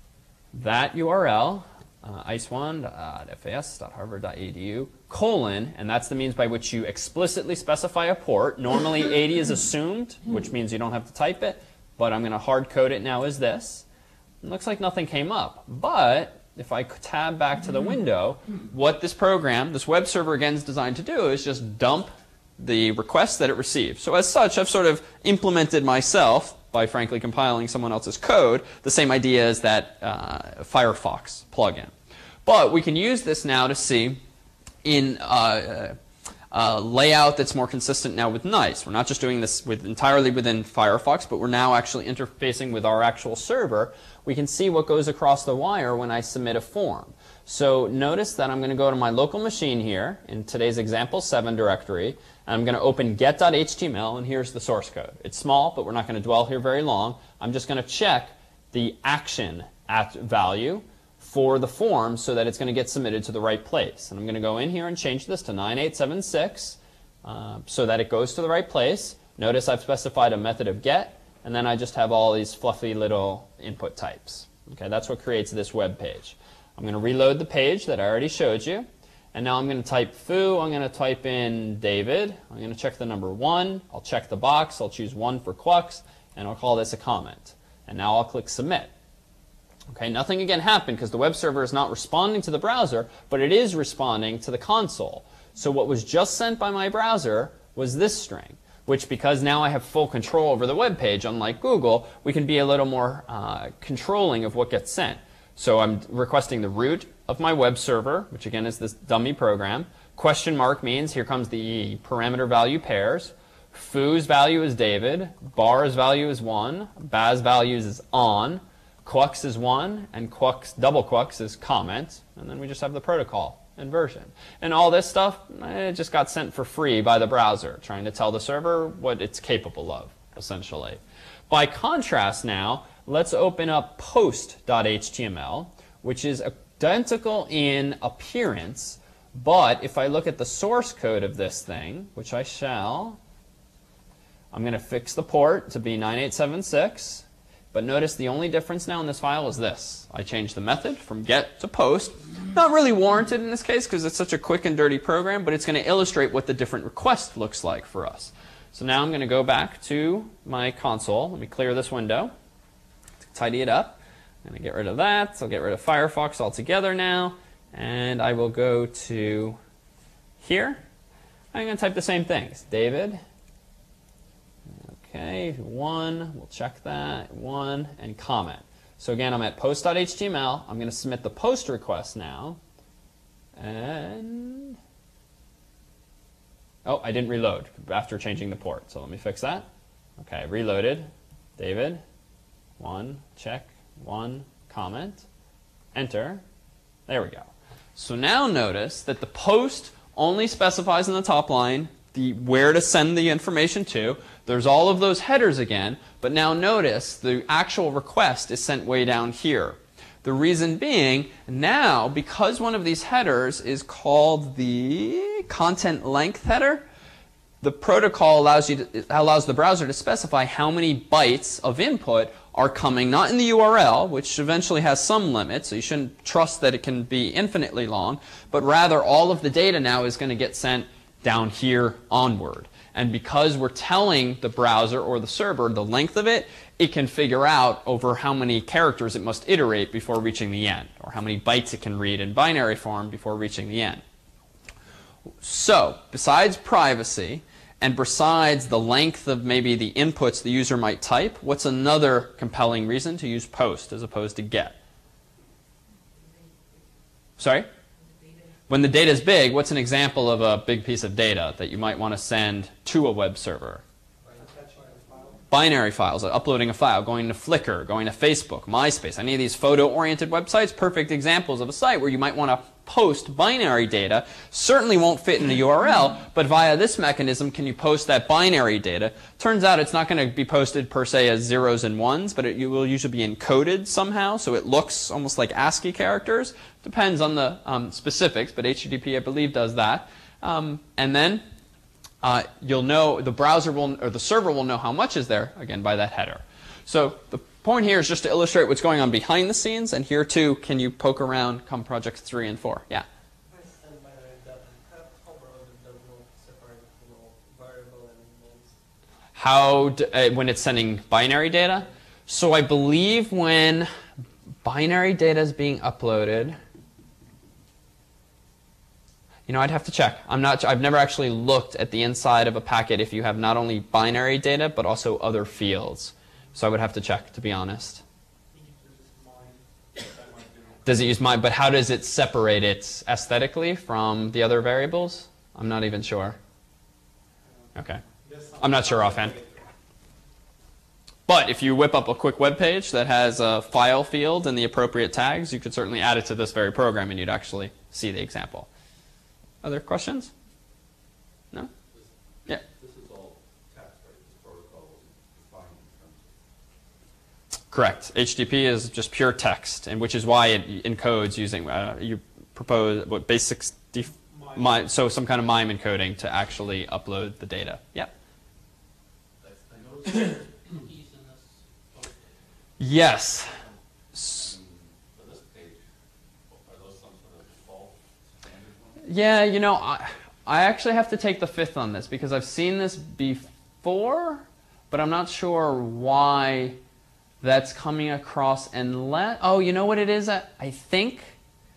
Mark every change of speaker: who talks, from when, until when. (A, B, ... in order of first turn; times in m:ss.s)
0:00.5-0:13.8 A
0:14.4-0:31.9 A
0:32.4-0:34.2 A
0:34.8-0:36.0 A
0:36.5-1:28.9 A
1:29.9-2:23.2 A
2:24.5-2:42.3 A
2:43.2-2:49.6 A
2:50.4-2:50.8 A
2:51.5-2:53.2 A
2:55.0-3:02.6 A
3:03.6-3:04.8 A
3:06.8-3:09.7 A
3:10.2-3:12.0 A
3:12.8-3:15.2 A
3:15.9-3:16.4 A
3:17.1-3:36.8 A
3:37.6-4:04.0 A
4:05.4-4:14.8 A
4:17.4-4:17.7 A
4:18.7-4:23.8 A
4:24.2-4:25.4 B
4:25.5-4:51.4 A
4:52.2-5:03.0 A
5:03.5-5:08.8 B
5:09.4-5:13.9 A
5:14.6-5:16.6 A
5:19.5-5:28.0 A
5:28.5-5:31.0 B
5:30.9-5:36.4 A
5:37.7-5:38.0 A
5:38.0-5:39.7 B
5:38.6-5:39.4 A
5:41.3-5:48.7 A
5:49.6-5:50.3 A
5:51.9-5:56.4 C
5:57.7-6:08.1 A
6:04.3-6:04.6 B
6:09.4-6:12.3 C
6:12.8-6:13.5 A
6:14.1-6:14.4 A
6:14.2-6:15.8 C
6:16.5-6:19.0 C
6:19.0-6:26.8 A
6:27.4-6:31.4 A